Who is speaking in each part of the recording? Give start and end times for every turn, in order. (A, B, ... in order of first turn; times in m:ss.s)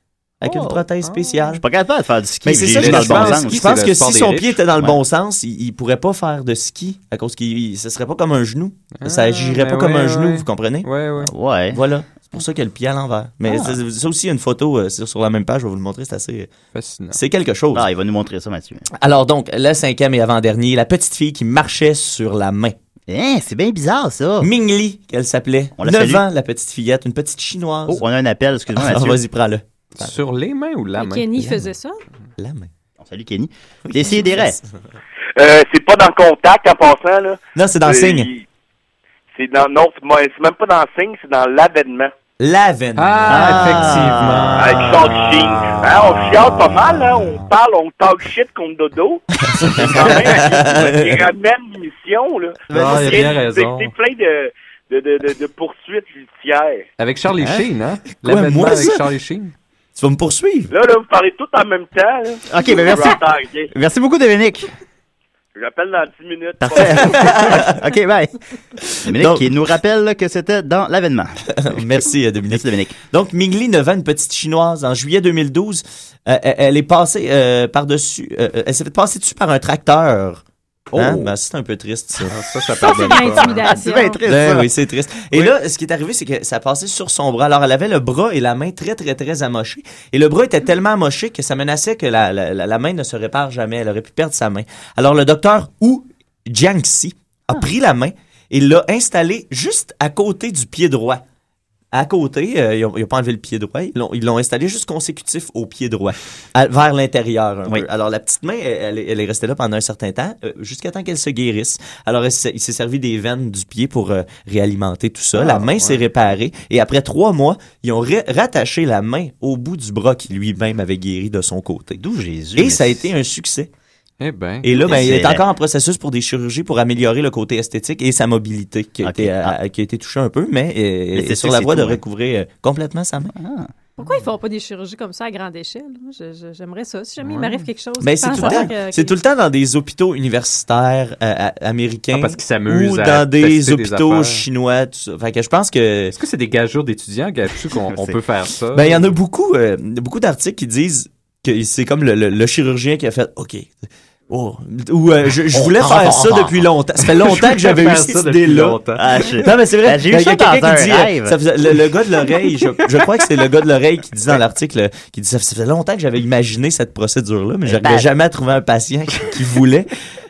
0:00.4-0:00.8 A
0:00.4-0:01.6 B
0:01.0-0:01.5 C
0:01.6-0:03.6 A
0:02.4-0:10.9 B
0:02.6-0:04.9 C
0:09.0-0:11.3 C
0:11.3-0:11.8 A
0:11.7-0:16.5 B
0:13.5-0:13.8 A
0:16.7-0:17.2 C
0:17.1-0:17.9 B
0:17.7-0:18.9 A
0:19.0-0:22.8 B
0:23.1-0:24.5 A
0:24.4-0:28.0 B
0:25.8-0:26.2 A
0:27.9-0:29.2 A
0:28.7-0:30.1 B
0:30.0-0:31.4 C
0:31.0-0:32.0 D
0:31.3-0:31.7 B
0:32.4-0:32.7 B
0:33.0-0:34.6 A
0:33.9-0:34.6 B
0:35.4-0:38.5 E
0:37.6-0:38.3 B
0:39.3-0:42.1 E
0:42.4-0:45.0 B
0:43.0-0:47.4 C
0:43.3-0:44.6 A
0:44.6-0:49.2 E
0:49.5-0:51.2 B
0:49.8-0:56.9 E
0:52.7-0:53.3 A
0:52.7-0:53.9 C
0:57.0-0:59.5 C
0:58.2-0:59.0 B
1:00.0-1:00.7 B
1:00.7-1:03.7 E
1:02.5-1:04.7 A
1:05.6-1:07.1 E
1:06.6-1:08.3 A
1:06.9-1:07.8 B
1:09.0-1:12.0 A
1:09.1-1:09.5 B
1:11.5-1:20.4 B
1:12.5-1:13.0 A
1:20.9-1:21.3 A
1:20.9-1:22.4 B
1:22.3-1:23.6 C
1:22.8-1:24.2 D
1:22.9-1:24.7 A
1:24.3-1:41.2 B
1:41.9-2:02.0 B
1:55.4-1:56.0 C
2:02.0-2:03.0 A
2:02.6-2:03.7 B
2:04.2-2:05.0 C
2:04.6-2:13.3 B
2:04.8-2:05.4 A
2:09.0-2:09.6 A
2:11.1-2:12.0 A
2:13.4-2:13.7 A
2:14.0-2:19.2 D
2:17.3-2:17.6 C
2:18.0-2:26.2 B
2:18.3-2:18.7 A
2:22.1-2:24.4 C
2:26.2-2:29.1 C
2:28.7-2:49.9 B
2:37.1-2:39.2 C
2:39.0-2:41.4 A
2:47.6-2:48.1 A